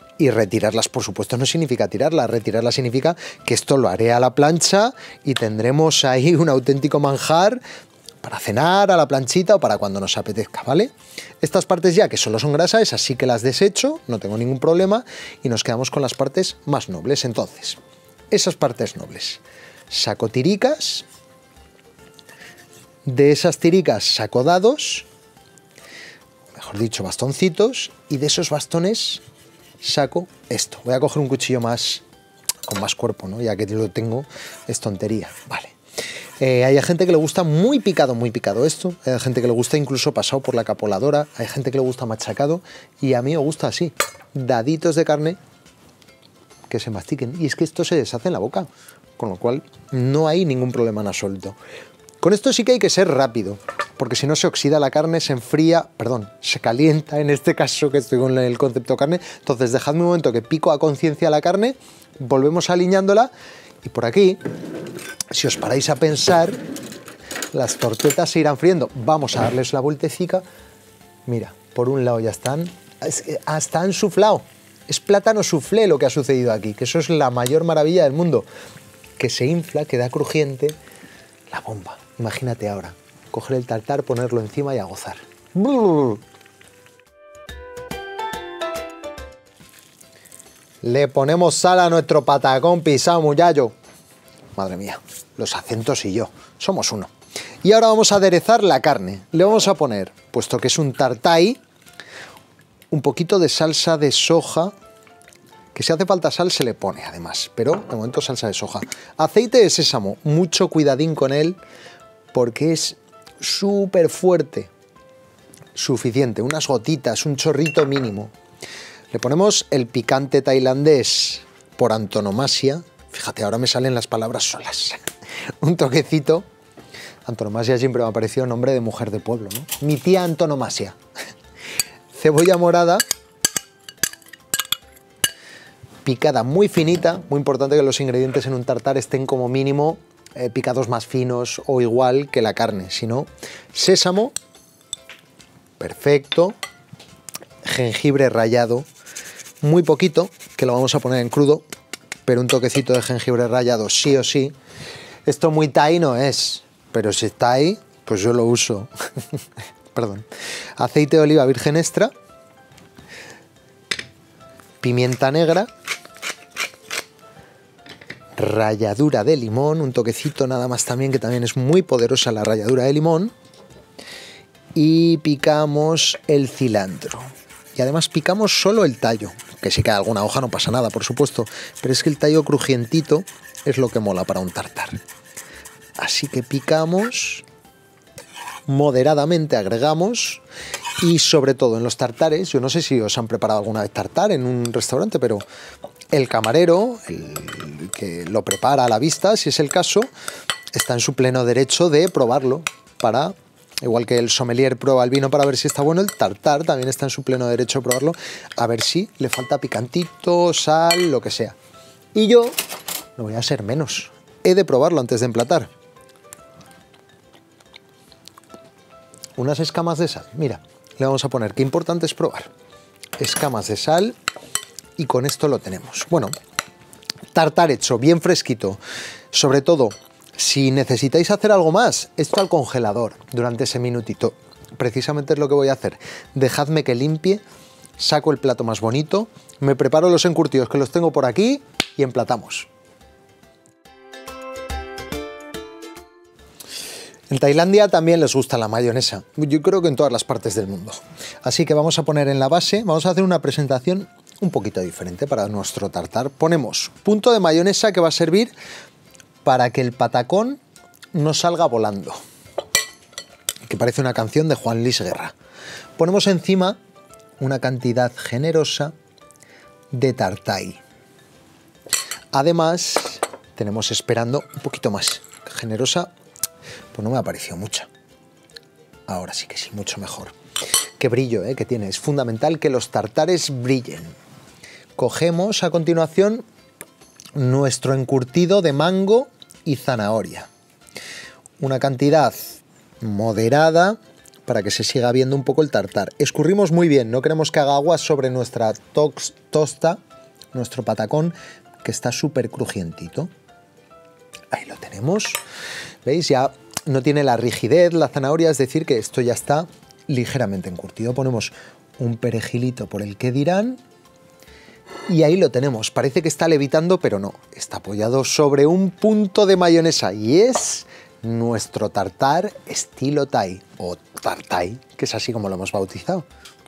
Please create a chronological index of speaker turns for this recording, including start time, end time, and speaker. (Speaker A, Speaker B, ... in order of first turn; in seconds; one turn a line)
Speaker A: 0.2-7.6
Speaker A: 8.2-17.8
Speaker A: 18.3-21.1
Speaker A: 23.1-25.1
Speaker A: 26.5-29.2
Speaker A: 29.8-32.0
Speaker A: 32.6-35.7
Speaker A: 36.4-45.4
Speaker A: 46.7-51.5
Speaker A: 52.2-63.3
Speaker A: 63.8-64.4
Speaker A: 65.3-66.6
Speaker A: 67.5-70.4
Speaker A: 71.2-78.5
Speaker A: 79.2-80.8
Speaker A: 81.5-86.2
Speaker A: 90.8-93.7
Speaker A: 94.5-97.1
Speaker A: 97.6-101.6
Speaker A: 102.9-104.7
Speaker A: 105.7-111.6
Speaker A: 112.3-114.7
Speaker A: 115.7-118.3
Speaker A: 119.1-125.0
Speaker A: 125.6-126.5
Speaker A: 127.2-131.0
Speaker A: 132.1-133.0
Speaker A: 136.0-144.3
Speaker A: 145.8-146.5
Speaker A: 147.6-148.9
Speaker A: 149.6-151.6
Speaker A: 152.2-154.5
Speaker A: 155.2-158.9
Speaker A: 159.9-162.1
Speaker A: 164.8-165.7
Speaker A: 168.3-173.3
Speaker A: 174.7-185.0
Speaker A: 186.0-187.4
Speaker A: 188.7-190.4
Speaker A: 191.0-195.4
Speaker A: 196.1-200.1
Speaker A: 200.7-211.6
Speaker A: 212.1-212.6
Speaker A: 213.2-215.7
Speaker A: 219.4-222.5
Speaker A: 223.2-224.2
Speaker A: 225.0-226.3
Speaker A: 227.3-228.8
Speaker A: 229.3-237.4
Speaker A: 238.0-242.7
Speaker A: 247.3-258.5
Speaker A: 259.4-260.6
Speaker A: 261.1-262.2
Speaker A: 263.7-265.3
Speaker A: 266.0-266.8
Speaker A: 267.4-268.9
Speaker A: 269.9-270.8
Speaker A: 272.3-276.1
Speaker A: 276.9-277.9
Speaker A: 279.1-280.3
Speaker A: 281.0-284.1
Speaker A: 285.0-286.4
Speaker A: 287.3-290.5
Speaker A: 291.6-300.0
Speaker A: 300.5-303.3
Speaker A: 304.5-305.4
Speaker A: 306.0-313.8
Speaker A: 315.1-326.2